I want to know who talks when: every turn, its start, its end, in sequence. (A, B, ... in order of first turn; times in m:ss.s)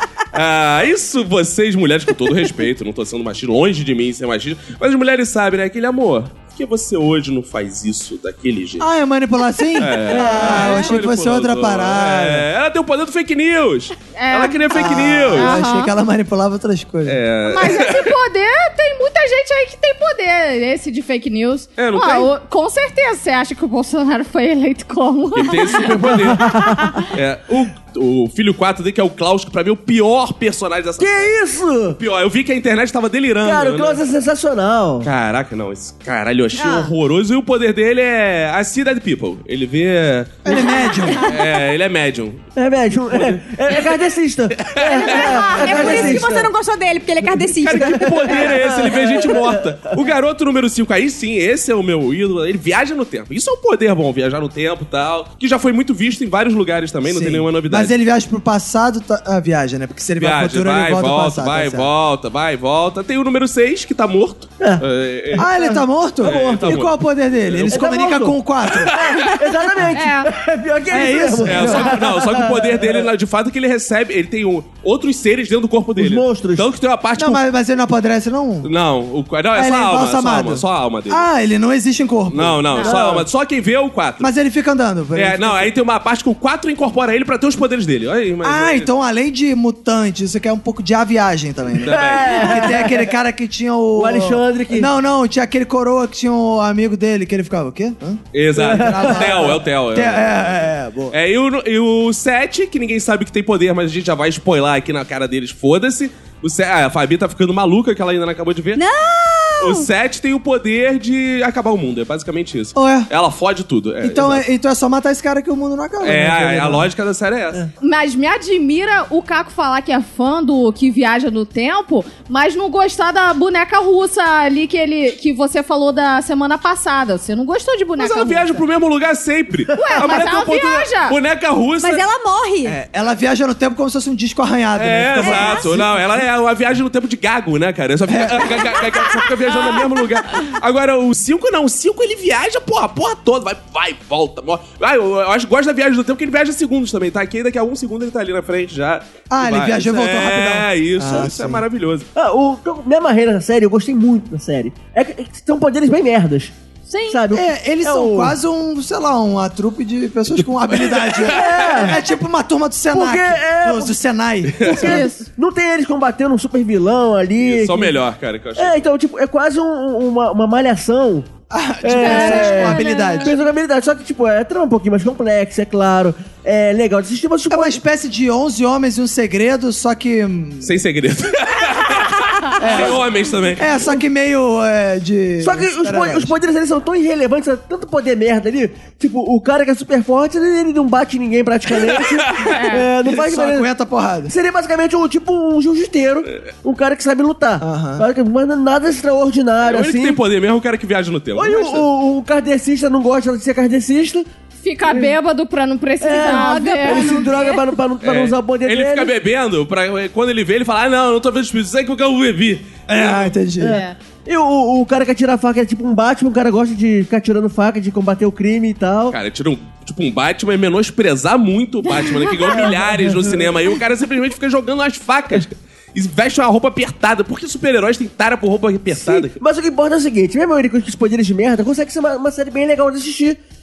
0:00.3-0:08.9 A
0:08.8-0:12.5 B
0:09.8-0:15.6 A
0:10.1-0:10.8 C
0:14.1-0:15.9 D
0:14.7-0:17.2 B
0:17.0-0:18.1 A
0:17.4-0:25.9 D
0:21.8-0:22.3 A
0:25.3-0:26.4 A
0:26.0-0:27.0 C
0:27.1-0:31.3 A
0:31.0-0:32.0 C
0:32.0-0:34.0 A
0:33.4-0:35.1 C
0:35.0-0:43.8 A
0:36.5-0:36.9 D
0:40.4-0:41.3 B
0:42.6-0:46.5 C
0:44.6-0:46.2 A
0:44.9-0:48.5 E
0:47.3-0:57.9 A
0:47.7-0:49.6 C
0:57.0-1:01.9 B
1:00.2-1:05.5 A
1:05.3-1:06.7 C
1:05.4-1:09.0 B
1:06.2-1:07.0 A
1:07.5-1:07.9 A
1:07.7-1:13.1 C
1:08.8-1:09.4 A
1:09.9-1:10.3 D
1:10.9-1:12.0 B
1:11.4-1:17.4 A
1:16.0-1:16.7 C
1:17.2-1:18.7 B
1:18.6-1:21.3 A
1:19.5-1:22.8 B
1:22.3-1:24.3 A
1:22.8-1:23.2 C
1:24.2-1:25.7 B
1:25.1-1:28.9 A
1:28.4-1:41.2 B
1:31.7-1:32.7 A
1:31.8-1:33.1 C
1:33.9-1:34.9 C
1:38.3-1:40.5 A
1:38.6-1:39.6 C
1:41.1-1:48.8 A
1:48.8-1:49.9 E
1:49.6-1:54.4 A
1:52.7-1:53.1 B
1:54.0-1:56.9 B
1:56.0-1:57.6 A
1:57.8-2:08.6 D
2:08.0-2:12.0 A
2:09.7-2:11.2 D
2:11.8-2:12.8 E
2:12.6-2:16.2 B
2:14.8-2:32.1 A
2:15.2-2:15.6 E
2:18.1-2:18.5 B
2:29.3-2:31.6 B
2:32.2-2:36.5 C
2:36.9-2:37.2 D
2:37.1-2:38.3 C
2:37.3-2:44.8 B
2:40.7-2:41.9 A
2:41.2-2:42.0 C
2:42.9-2:43.9 C
2:44.6-2:45.0 A
2:44.6-2:48.0 C
2:44.8-2:45.3 D
2:47.4-2:48.9 A
2:48.6-2:51.3 C
2:51.5-2:53.4 B
2:51.8-2:57.8 C
2:51.9-2:53.4 D
2:57.5-3:00.8 B
3:00.6-3:03.7 A
3:02.6-3:03.0 B
3:03.5-3:06.4 B
3:05.4-3:13.7 C
3:11.7-3:12.5 A
3:12.5-3:12.9 D
3:13.0-3:14.3 B
3:14.3-3:20.2 C
3:17.6-3:18.0 B
3:19.6-3:21.9 A
3:21.3-3:24.2 C
3:24.6-3:27.3 D
3:24.9-3:25.1 C
3:26.0-3:29.1 C
3:26.2-3:27.6 E
3:28.0-3:33.3 A
3:32.9-3:33.8 B
3:33.6-3:39.2 C
3:33.7-3:34.0 D
3:39.1-3:49.4 A
3:42.5-3:43.5 C
3:48.9-3:53.4 C